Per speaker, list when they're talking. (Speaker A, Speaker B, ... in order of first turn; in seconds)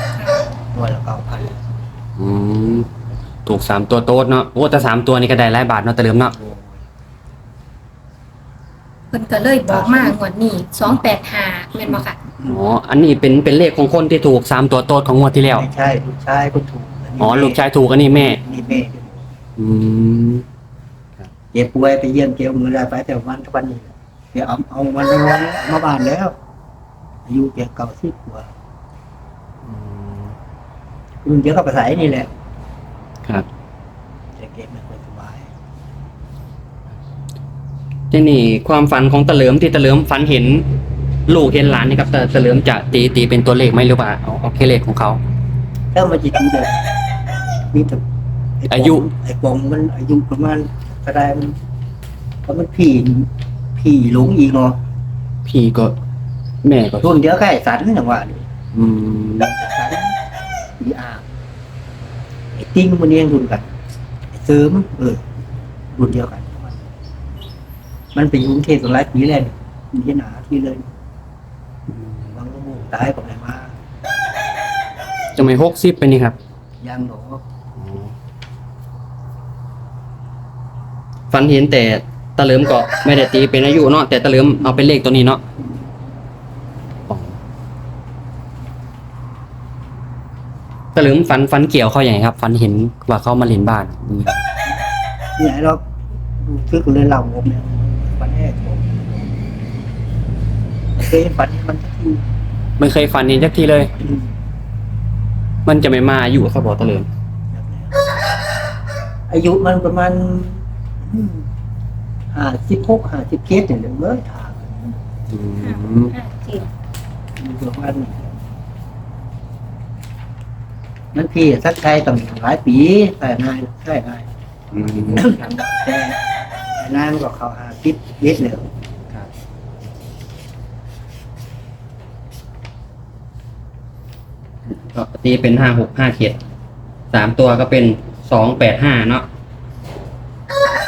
Speaker A: 0.2-0.4, 9.1-12.2, 115.6-116.7
Speaker B: 0.7-1.5, 6.4-6.8, 9.7-10.2, 15.5-19.3, 21.5-26.4, 27.3-28.5, 31.2-32.3, 34.4-35.5, 45.9-46.9, 47.7-48.0, 48.6-51.6, 52.5-54.8, 57.0-58.5, 59.5-60.1, 60.8-61.2, 62.5-63.7, 64.3-65.2, 65.9-66.9, 68.1-70.9, 72.3-73.7, 76.8-77.4, 95.4-95.8, 96.4-99.4, 101.0-102.2, 107.5-108.0, 109.3-111.5, 112.3-114.7, 117.4-118.3, 121.1-124.3, 124.8-126.2, 126.8-128.7
Speaker C: 2.2-2.9, 3.5-6.3, 12.5-15.7, 17.2-18.4, 19.6-20.5, 29.6-30.4, 38.1-40.7, 41.3-45.2, 48.7-49.1, 55.5-56.0, 56.6-57.1, 58.7-59.5, 71.9-72.3, 75.4-76.4, 77.8-78.1, 81.3-85.4, 87.1-87.4, 91.0-94.4, 102.8-103.9, 105.7-107.1, 115.3-116.2, 124.7-125.5, 134.7-136.4, 137.1-139.3